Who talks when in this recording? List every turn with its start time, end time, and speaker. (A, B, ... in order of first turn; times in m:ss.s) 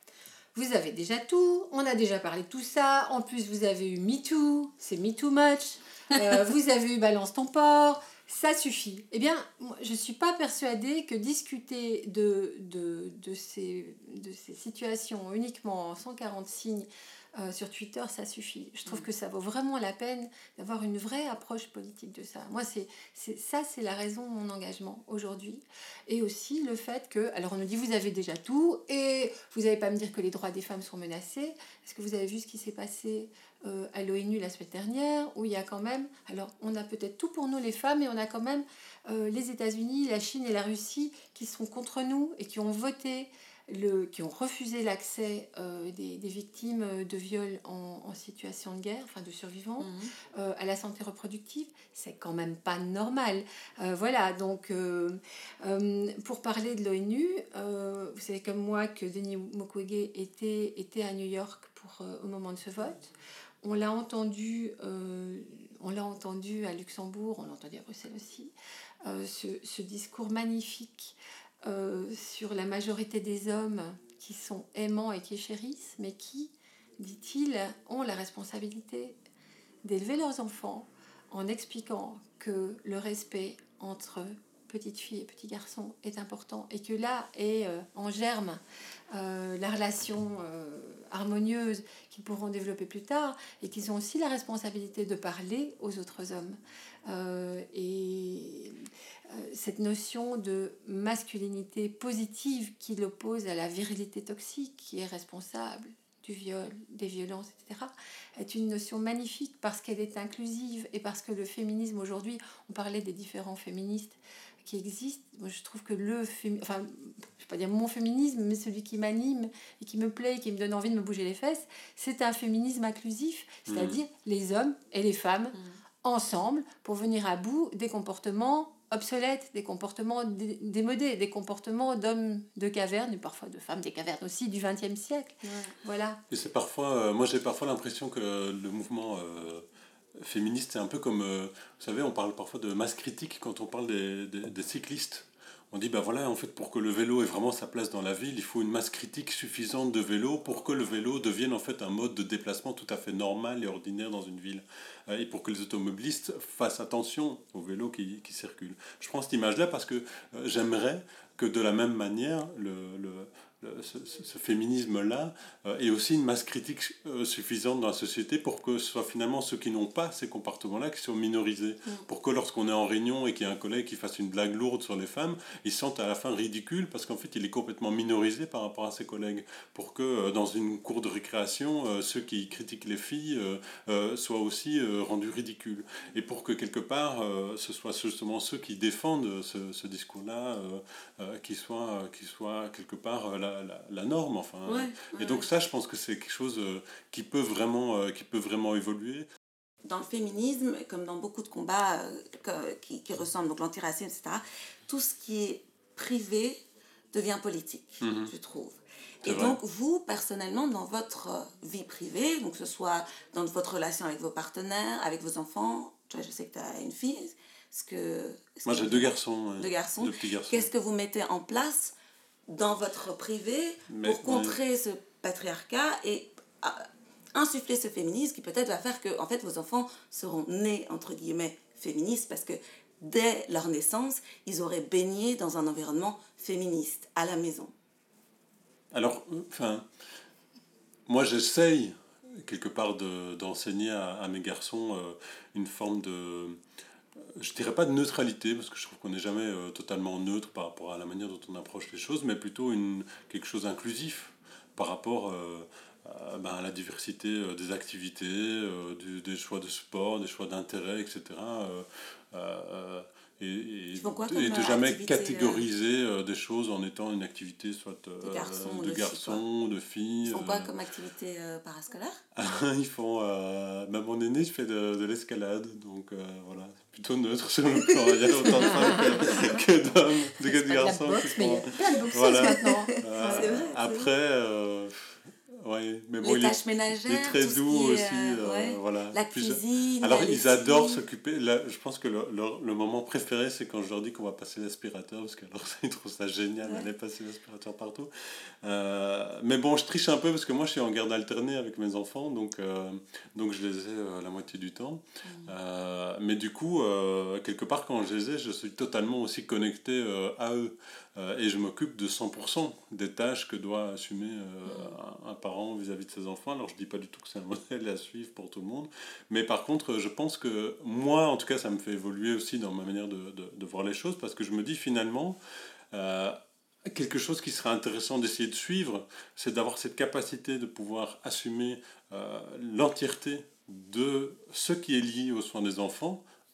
0:00.5-1:08.5 A
0:49.8-0:50.1 B
1:09.0-1:19.2 A
1:19.8-1:28.6 A
1:29.1-2:16.2 A
2:03.7-2:04.0 C
2:15.5-2:15.7 B
2:16.3-2:19.6 C
2:20.2-3:19.3 C
3:14.6-3:15.5 B
3:19.8-3:26.6 B
3:27.1-3:41.9 B
3:28.0-3:28.3 C
3:29.2-3:29.6 C
3:38.6-3:40.7 C
3:42.5-3:57.7 B
3:43.9-3:44.6 C
3:58.9-3:59.8 C
4:01.1-4:06.6 C
4:07.2-4:30.7 C
4:24.0-4:25.6 B
4:28.2-4:29.4 B
4:30.2-4:32.2 B
4:32.3-5:25.4 C
4:37.9-4:39.1 B
4:40.6-4:43.5 A
4:42.3-4:44.1 B
4:46.2-4:51.0 B
5:05.2-5:05.5 B
5:14.7-5:15.0 B
5:25.9-5:36.2 C